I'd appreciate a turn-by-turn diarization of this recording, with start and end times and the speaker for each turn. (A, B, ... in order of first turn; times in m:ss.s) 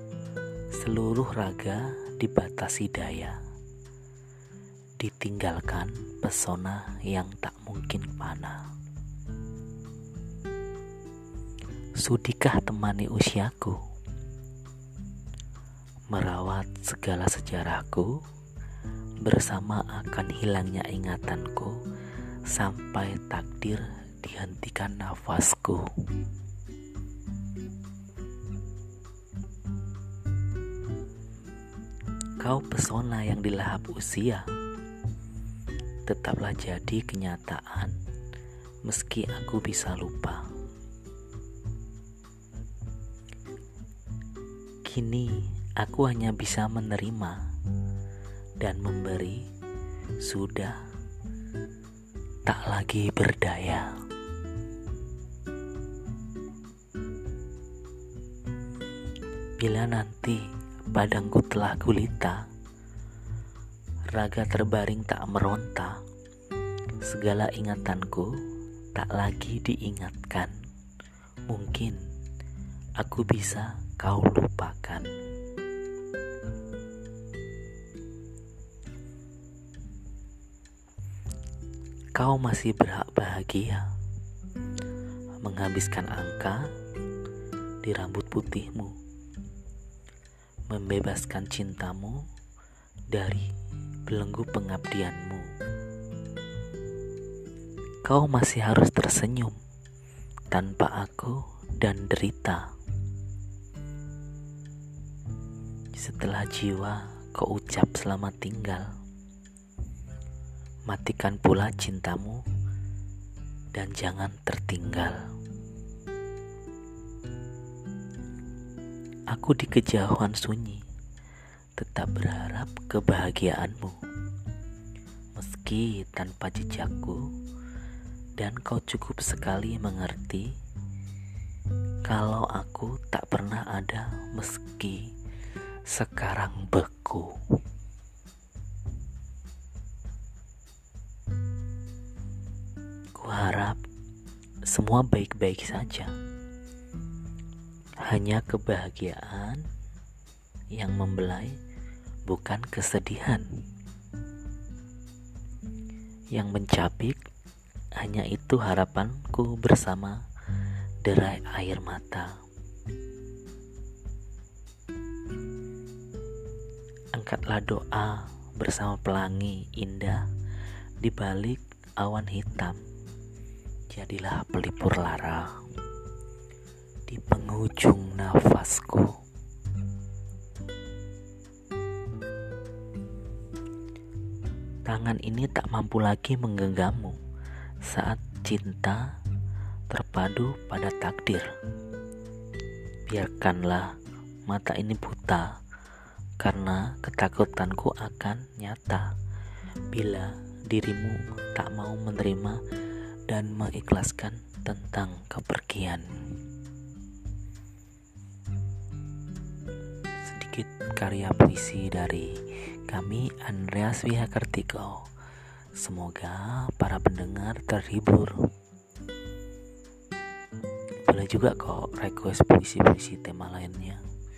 0:00.8-0:03.4 A
0:05.0-0:08.6 A
0:12.0-0:13.8 A
0:16.1-0:18.1 A
0:19.2-0:21.8 A
0:22.5-0:25.8 A
0:32.4-0:34.5 A
0:36.0-0:37.9 A
0:38.8-0:40.4 A
0:44.8-0:47.4 A
0:48.6-0:49.4 A
0:50.2-0:50.8 A
0:52.4-0:53.9 A
0:59.6-1:02.4 A
1:04.1-1:06.0 A
1:07.0-1:08.3 A
1:08.9-1:10.5 A
1:11.5-1:12.0 A
1:13.0-1:15.1 A
1:22.2-1:23.9 A
1:25.4-1:26.6 A
1:27.8-1:28.9 A
1:30.7-1:32.2 A
1:33.1-1:33.5 A
1:34.1-1:35.5 A
1:38.0-1:39.6 A
1:40.5-1:42.7 A
1:46.0-1:48.9 A
1:50.9-1:52.4 A
1:53.7-1:55.2 A
1:59.3-2:00.8 A
2:01.8-2:04.0 A
2:05.4-2:07.2 A
2:08.4-2:10.5 A
2:12.0-2:15.1 A
2:15.9-2:17.4 A
2:23.1-2:23.8 A
2:24.7-2:26.1 A
2:28.0-2:29.6 A
2:30.7-2:31.6 A
2:32.3-2:33.5 A
2:36.3-2:37.2 A
2:38.0-2:40.2 A
2:41.0-2:42.4 A
2:47.1-2:50.2 A
2:51.0-2:52.8 A
2:53.9-2:55.5 A
2:57.1-2:59.1 A
3:04.8-3:07.2 A
3:07.9-3:09.0 A
3:09.9-3:11.5 A
3:13.1-3:13.9 A
3:14.5-3:15.5 A
3:16.4-3:19.1 A
3:19.9-3:22.6 A
3:23.3-3:26.1 A
3:30.2-3:32.3 A
3:32.9-3:35.0 A
3:35.8-3:38.4 A
3:41.0-3:44.0 A